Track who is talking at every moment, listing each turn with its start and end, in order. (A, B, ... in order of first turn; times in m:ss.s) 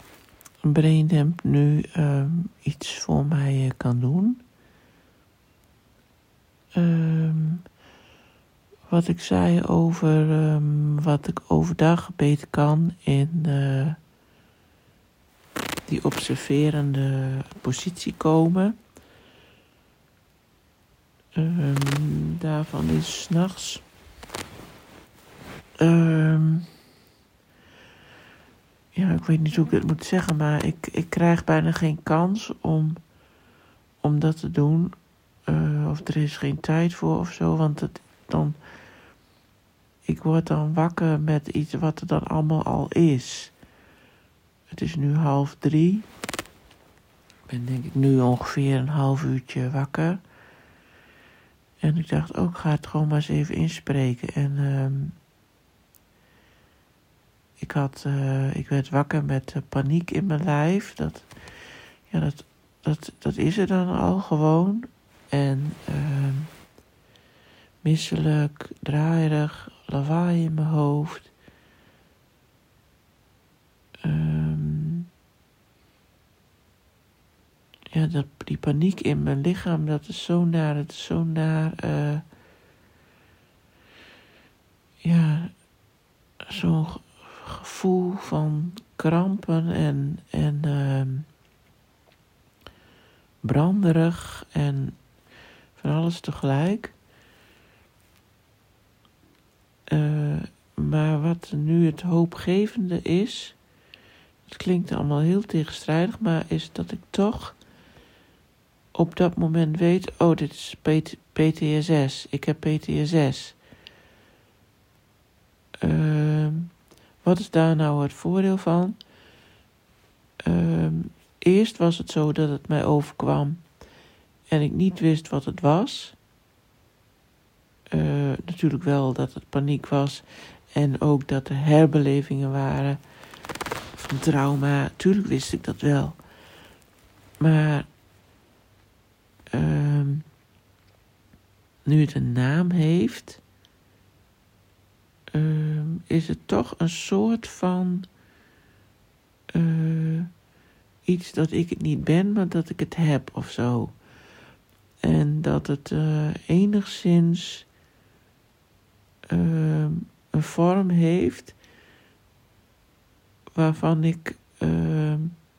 0:00.6-0:04.4 A
0:06.7-0:07.6 A
0:08.9-0:14.0 A
0:15.9-0:18.8 A
0:21.3-0:23.8 A
0:25.8-0:26.7 A
0:28.9-0:33.0 A
0:34.0-0:34.9 A
0:35.5-0:38.6 A
0:40.0-0:43.5 A
0:44.7-0:46.1 A
0:47.5-0:50.2 A
0:51.8-0:55.2 A
0:57.6-1:01.3 A
1:02.1-1:06.5 A
1:07.8-1:11.3 A
1:14.0-1:15.1 A
1:17.9-1:22.2 A
1:25.0-1:25.5 A
1:26.4-1:31.3 A
1:33.4-1:35.0 A
1:35.7-1:37.0 A
1:39.9-1:43.6 A
1:44.5-1:47.6 A
1:48.9-1:53.6 A
1:55.8-1:59.0 A
2:00.4-2:03.6 A
2:04.5-2:06.2 A
2:07.9-2:13.0 A
2:13.9-2:16.2 A
2:17.4-2:17.9 A
2:19.5-2:20.2 A
2:21.8-2:23.4 A
2:25.3-2:28.1 A
2:29.5-2:30.3 A
2:31.0-2:34.0 A
2:35.0-2:37.7 A
2:39.3-2:41.6 A
2:43.5-2:45.4 A